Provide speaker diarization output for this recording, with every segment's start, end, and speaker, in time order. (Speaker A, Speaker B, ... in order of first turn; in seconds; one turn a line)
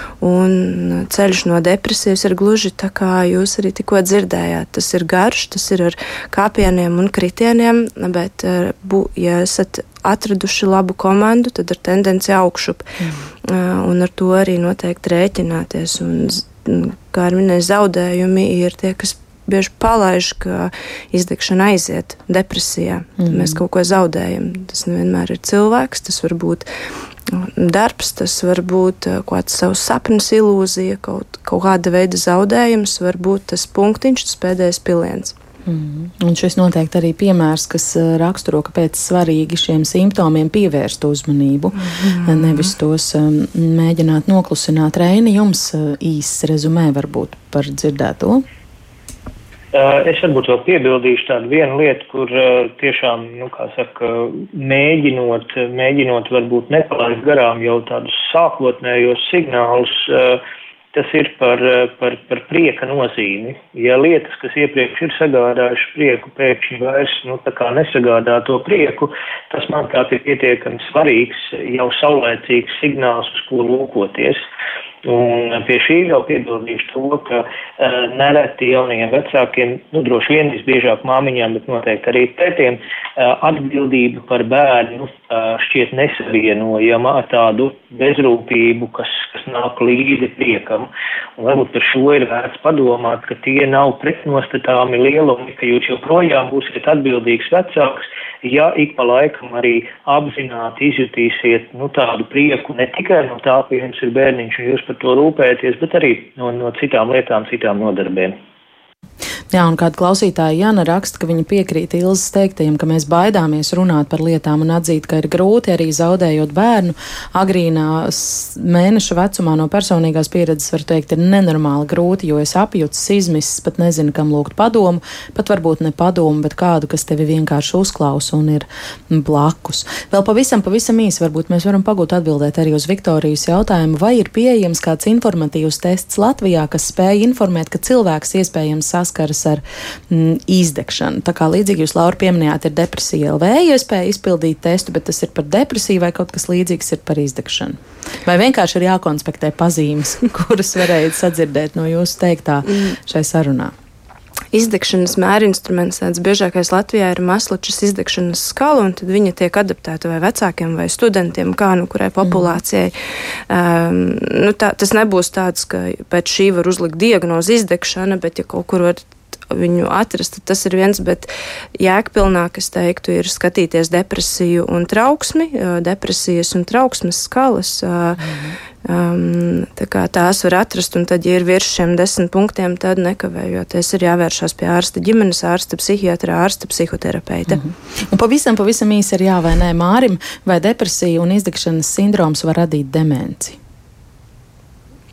Speaker A: 0.2-12.8
Speaker A: 13.4-26.7
Speaker B: 23.2-23.6
Speaker A: 27.3-35.3
Speaker B: 35.6-48.5
Speaker C: 49.7-60.4
Speaker C: 60.9-74.4
Speaker C: 75.0-108.4
Speaker B: 109.5-153.7
Speaker A: 154.5-162.9
Speaker B: 162.2-162.5
Speaker A: 163.5-178.2
Speaker B: 178.2-178.5
Speaker A: 178.8-187.6
Speaker B: 187.5-193.6